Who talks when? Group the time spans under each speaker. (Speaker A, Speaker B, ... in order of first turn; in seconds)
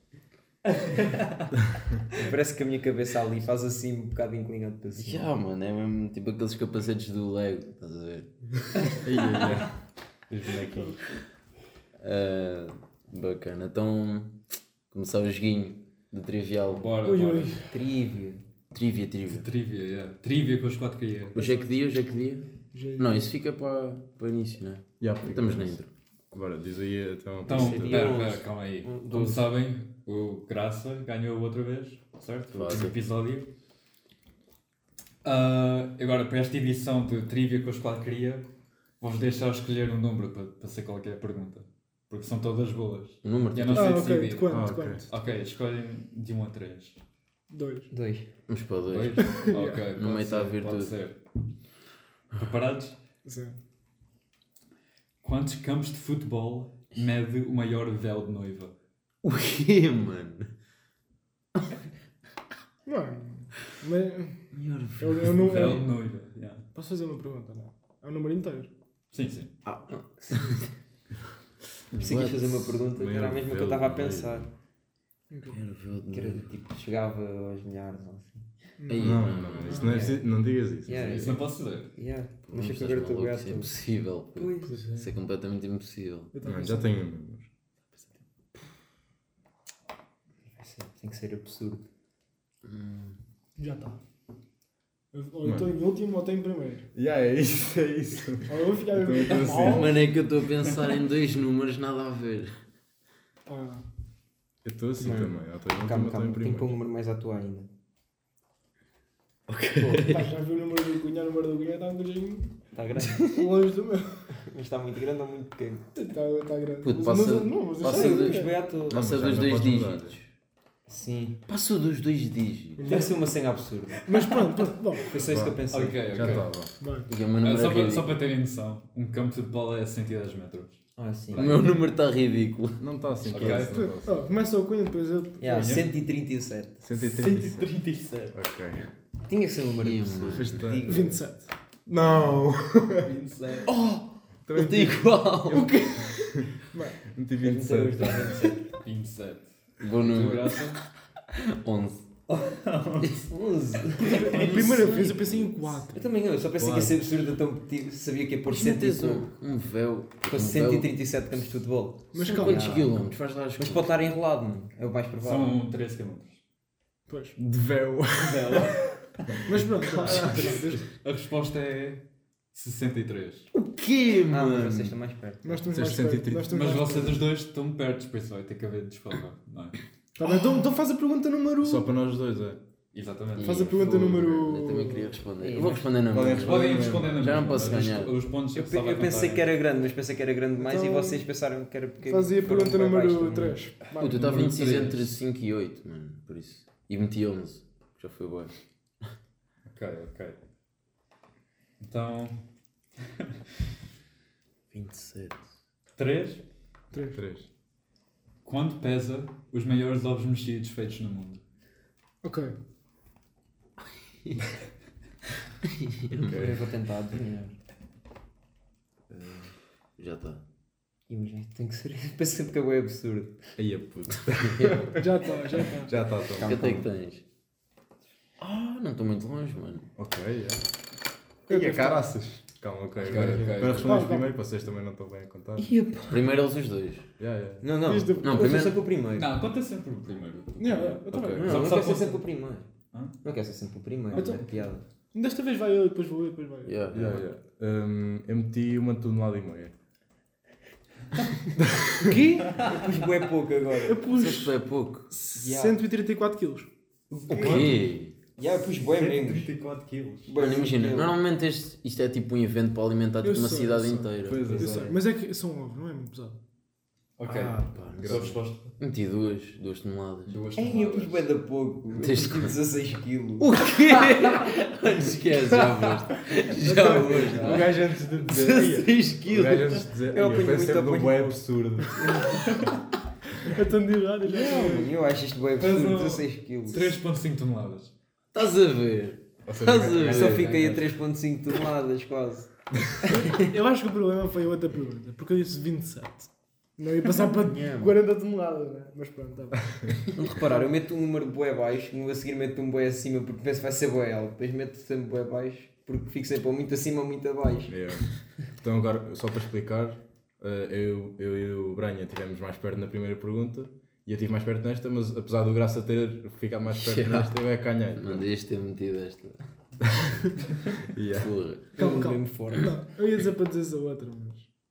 Speaker A: 0.7-1.5, 9.2-9.5, 16.7-17.6, 19.2-21.4, 27.4-33.5, 35.2-38.5, 39.0-47.0, 48.9-51.2, 52.4-53.0, 55.2-58.7, 65.3-66.6, 69.1-69.5, 81.1-81.9, 125.7-126.5, 127.4-130.8, 133.3-133.8, 135.4-135.9, 136.9-138.4, 143.0-143.7, 148.7-150.8, 152.3-153.3, 154.0-154.9, 165.2-166.4, 168.1-173.5, 176.5-179.8, 182.9-183.9, 186.3-189.5, 194.0-195.1, 199.7-200.4, 201.8-202.4, 205.9-206.4, 208.4-211.4, 233.0-234.0, 239.1-242.2, 252.5-253.1, 257.3-257.8, 258.8-260.3, 267.2-268.7, 270.2-271.2, 285.6-287.9, 290.2-290.8
Speaker B: 2.1-5.3, 17.7-18.4, 27.5-28.4, 47.9-48.3, 72.0-74.5, 76.1-78.5, 79.7-80.2, 80.8-83.7, 84.3-84.8, 90.5-91.9, 105.1-107.7, 112.7-113.4, 114.4-115.8, 117.8-119.0, 120.9-121.4, 122.8-124.0, 125.0-126.4, 131.0-131.6, 135.4-136.8, 139.3-141.2, 147.4-148.7, 153.3-155.1, 155.9-159.3, 160.2-163.0, 163.6-165.6, 174.3-175.6, 185.4-185.9, 188.5-193.6, 216.3-217.6, 221.1-223.4, 226.4-226.8, 235.6-236.2, 237.6-239.3, 241.4-242.7, 243.2-244.8, 252.0-254.0, 255.3-255.8, 257.3-257.7, 258.4-259.5, 260.3-261.1, 270.6-273.5, 276.7-277.7, 280.1-281.4, 284.2-286.9, 290.0-292.5, 297.4-297.9, 300.1-307.8, 321.7-322.7
Speaker C: 5.0-9.1, 12.0-14.4, 14.9-16.9, 18.7-19.5, 21.3-25.9, 27.8-28.3, 28.8-29.5, 32.5-33.0, 43.2-44.1, 48.5-49.3, 49.9-50.9, 59.2-60.5, 64.5-65.8, 69.6-70.7, 71.9-72.8, 75.5-76.5, 78.9-80.0, 82.5-86.3, 92.6-93.2, 99.5-102.5, 109.5-110.3, 116.8-120.3, 121.5-122.9, 127.1-128.2, 131.3-132.8, 139.8-140.7, 143.7-144.0, 144.5-146.4, 149.8-150.7, 151.3-152.0, 158.5-160.9, 162.2-164.1, 173.5-174.9, 183.4-188.1, 194.0-198.5, 204.7-205.4, 215.6-216.4, 220.0-220.4, 224.4-224.9, 226.3-227.2, 228.4-229.9, 236.1-237.1, 238.2-238.8, 246.6-247.2, 254.1-255.1, 257.3-258.1, 260.4-264.6, 267.3-270.4, 272.0-272.5, 273.4-279.8, 288.3-290.5, 316.7-317.3, 317.9-319.4, 321.1-321.7
Speaker D: 9.0-11.0, 25.0-28.2, 44.5-45.0, 72.9-74.5, 79.0-81.4, 84.7-85.1, 86.4-87.5, 95.4-95.7, 96.9-100.0, 104.6-106.8, 109.8-110.0, 118.9-120.2, 125.2-125.6, 126.1-126.7, 132.8-134.3, 136.8-137.7, 138.3-138.9, 140.3-141.0, 141.9-143.1, 144.5-145.0, 147.0-148.5, 156.6-157.0, 167.4-168.7, 175.7-176.7, 181.6-182.6, 186.1-187.9, 207.1-207.5, 216.1-216.6, 219.1-219.5, 223.6-226.6, 230.0-230.7, 231.5-235.7, 237.2-237.7, 241.1-241.6, 244.1-244.4, 246.9-249.7, 251.6-252.2, 264.2-265.0, 267.8-268.3, 275.4-275.9, 276.7-282.4, 289.4-290.5, 307.7-318.3, 320.8-321.3
Speaker E: 17.0-17.7, 21.4-21.7, 22.7-23.3, 43.7-45.1, 47.5-47.9, 49.3-49.9, 53.2-53.6, 62.9-64.4, 65.0-65.9, 66.7-68.7, 75.3-75.6, 78.8-80.0, 86.3-86.9, 93.6-94.0, 95.1-96.9, 98.5-100.0, 103.5-103.8, 105.0-105.3, 110.0-112.6, 113.1-114.4, 115.9-118.5, 122.8-123.2, 124.0-125.1, 126.8-127.1, 133.5-135.7, 140.8-141.5, 145.5-146.1, 146.7-147.0, 153.9-156.1, 162.1-162.9, 167.1-167.4, 169.4-170.8, 175.4-177.2, 180.2-181.9, 183.4-185.2, 190.6-191.2, 192.0-194.7, 206.9-207.2, 212.2-212.5, 224.9-226.1, 231.5-232.0, 233.8-234.3, 237.8-238.7, 240.6-241.6, 244.1-244.4, 245.1-246.9, 252.0-252.6, 253.8-254.6, 255.1-256.7, 263.2-266.4, 276.6-277.4, 282.0-282.4, 283.4-284.9, 293.1-299.9, 321.8-324.5